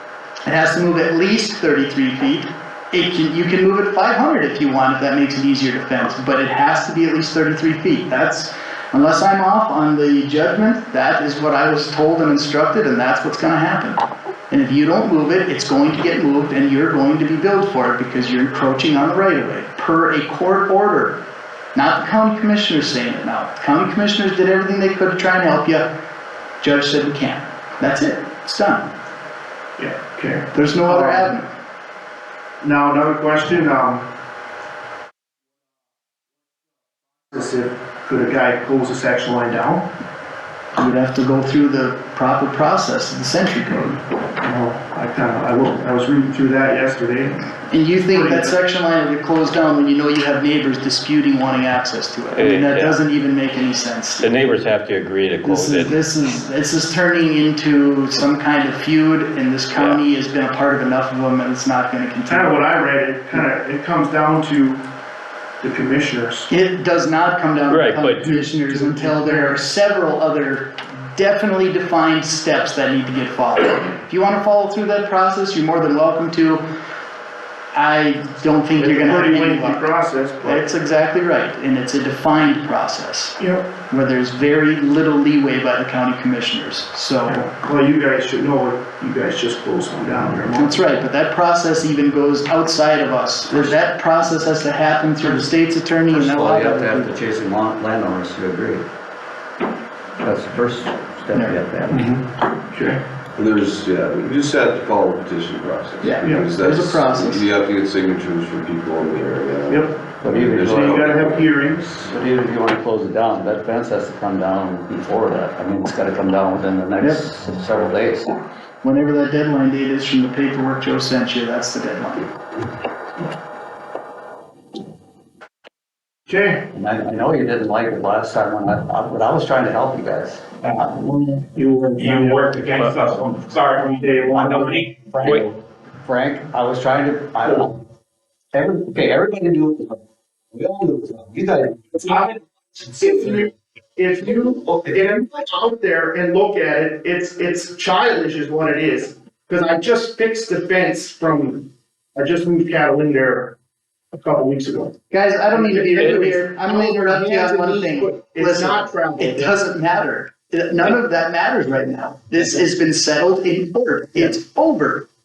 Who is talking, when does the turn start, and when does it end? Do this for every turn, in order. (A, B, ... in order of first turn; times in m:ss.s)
0:00.4-0:14.0 A
0:14.5-0:21.2 A
0:21.8-0:25.9 A
0:26.6-0:28.9 A
0:29.8-0:31.3 B
0:30.5-0:31.5 A
0:32.6-0:34.0 B
0:37.3-0:39.9 B
0:40.8-0:44.0 A
0:44.4-0:47.4 B
0:47.7-0:54.4 A
0:48.1-0:48.5 B
0:52.3-0:53.0 C
0:54.2-0:56.0 C
0:55.4-1:02.6 A
1:02.2-1:04.8 B
1:05.6-1:06.5 B
1:06.5-1:16.6 A
1:07.7-1:08.2 C
1:08.2-1:09.6 B
1:17.7-1:19.8 A
1:18.8-1:20.6 B
1:20.4-1:23.4 A
1:23.4-1:23.6 B
1:23.9-1:27.4 A
1:27.3-1:30.8 B
1:30.5-1:37.1 A
1:35.2-1:35.5 D
1:36.1-1:38.8 D
1:40.2-1:42.0 D
1:41.9-1:43.0 B
1:43.3-1:51.5 E
1:46.0-1:47.4 A
1:46.2-1:46.5 B
1:49.7-1:50.0 B
1:50.2-1:51.2 D
1:50.6-1:52.1 B
1:52.0-1:58.3 D
1:58.8-2:02.3 A
2:06.3-2:06.6 B
2:06.7-2:10.4 D
2:11.4-2:12.5 B
2:11.9-2:15.5 F
2:14.0-2:14.8 B
2:14.3-2:17.8 D
2:18.5-2:20.0 D
2:20.5-2:22.2 D
2:22.9-2:33.6 B
2:24.6-2:25.0 D
2:34.1-2:35.0 B
2:35.1-2:45.1 A
2:35.5-2:39.5 B